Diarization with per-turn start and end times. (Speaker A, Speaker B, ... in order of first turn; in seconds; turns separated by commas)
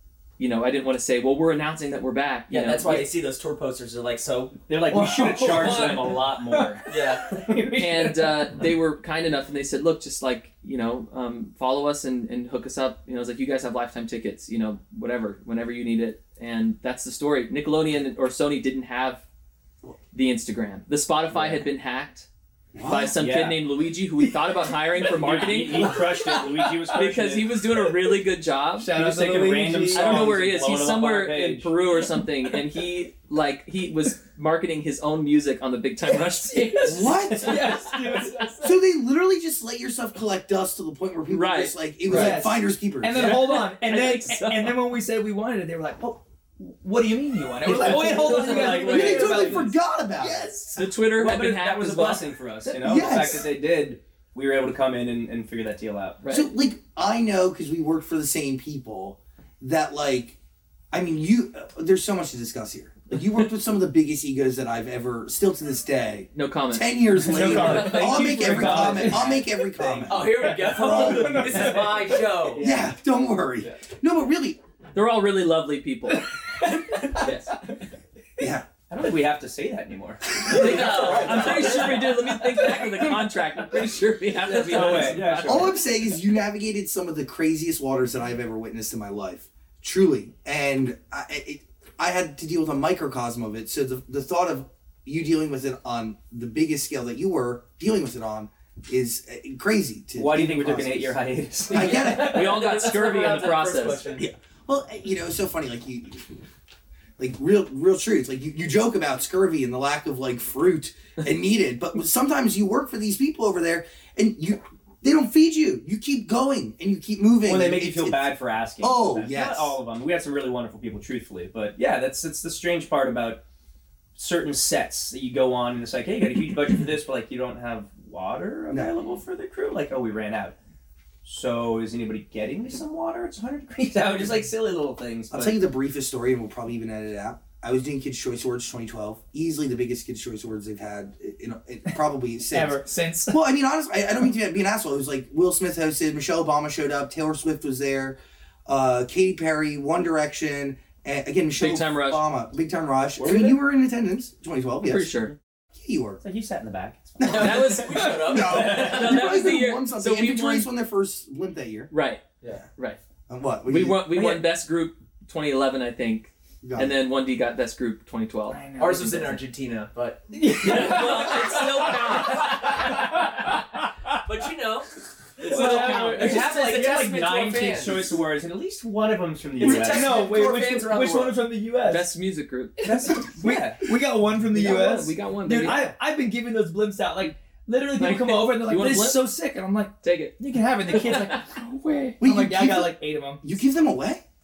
Speaker A: 0.4-3.1, Speaker B: 2.5-4.8, Speaker C: 4.7-7.8, Speaker D: 4.9-8.3, Speaker A: 5.4-6.2, Speaker B: 6.9-7.4, Speaker A: 7.8-19.2, Speaker A: 20.1-22.3, Speaker E: 22.7-23.2, Speaker A: 22.9-26.1, Speaker C: 23.2-23.6, Speaker C: 25.0-27.6, Speaker D: 25.8-27.0, Speaker A: 26.9-28.9, Speaker D: 28.8-30.4, Speaker C: 28.9-31.7, Speaker A: 29.9-38.2, Speaker D: 36.1-38.6, Speaker E: 36.9-37.7, Speaker E: 38.6-43.5, Speaker A: 41.3-42.3, Speaker D: 42.1-50.5, Speaker A: 43.1-44.8, Speaker C: 47.7-49.7, Speaker A: 47.7-49.7, Speaker E: 48.5-50.8, Speaker A: 50.7-52.3, Speaker C: 51.1-56.2, Speaker D: 52.6-53.0, Speaker E: 52.8-53.5, Speaker A: 56.2-56.5, Speaker E: 56.3-60.4, Speaker E: 60.9-70.3, Speaker A: 66.3-68.2, Speaker D: 67.2-69.3, Speaker C: 67.6-72.9, Speaker B: 70.1-72.7, Speaker D: 70.8-71.8, Speaker E: 71.0-71.4, Speaker E: 72.6-74.6, Speaker A: 74.9-76.3, Speaker D: 76.6-77.3, Speaker B: 77.2-77.5, Speaker E: 78.4-78.7, Speaker C: 78.9-82.1, Speaker A: 80.4-85.8, Speaker B: 80.6-81.7, Speaker C: 84.5-85.8, Speaker E: 85.4-101.2, Speaker C: 100.2-102.1, Speaker E: 101.7-102.6, Speaker B: 101.7-104.3, Speaker A: 101.8-104.1, Speaker E: 104.2-106.3, Speaker E: 107.2-119.8, Speaker C: 117.4-123.4, Speaker C: 124.2-130.6, Speaker C: 131.2-135.6, Speaker E: 135.3-155.2, Speaker D: 142.5-143.4, Speaker A: 151.6-152.2, Speaker C: 153.2-153.6, Speaker A: 154.8-155.3, Speaker E: 155.8-156.2, Speaker C: 156.2-157.8, Speaker E: 157.2-157.5, Speaker B: 157.2-159.1, Speaker A: 157.3-160.7, Speaker E: 158.1-161.9, Speaker A: 161.9-162.2, Speaker E: 163.3-164.4, Speaker A: 163.7-168.7, Speaker E: 166.6-166.9, Speaker D: 168.5-169.3, Speaker B: 168.8-172.9, Speaker D: 170.3-171.4, Speaker A: 170.6-172.6, Speaker D: 172.6-173.2, Speaker B: 174.2-174.9, Speaker B: 175.4-178.2, Speaker C: 175.5-180.3, Speaker D: 175.5-176.7, Speaker A: 175.6-176.3, Speaker B: 179.6-181.4, Speaker D: 179.6-182.1, Speaker A: 181.9-183.1, Speaker C: 182.8-183.9, Speaker D: 183.1-193.4, Speaker A: 184.5-185.9, Speaker A: 188.0-189.3, Speaker A: 190.0-190.4, Speaker A: 190.9-191.4, Speaker E: 192.2-194.2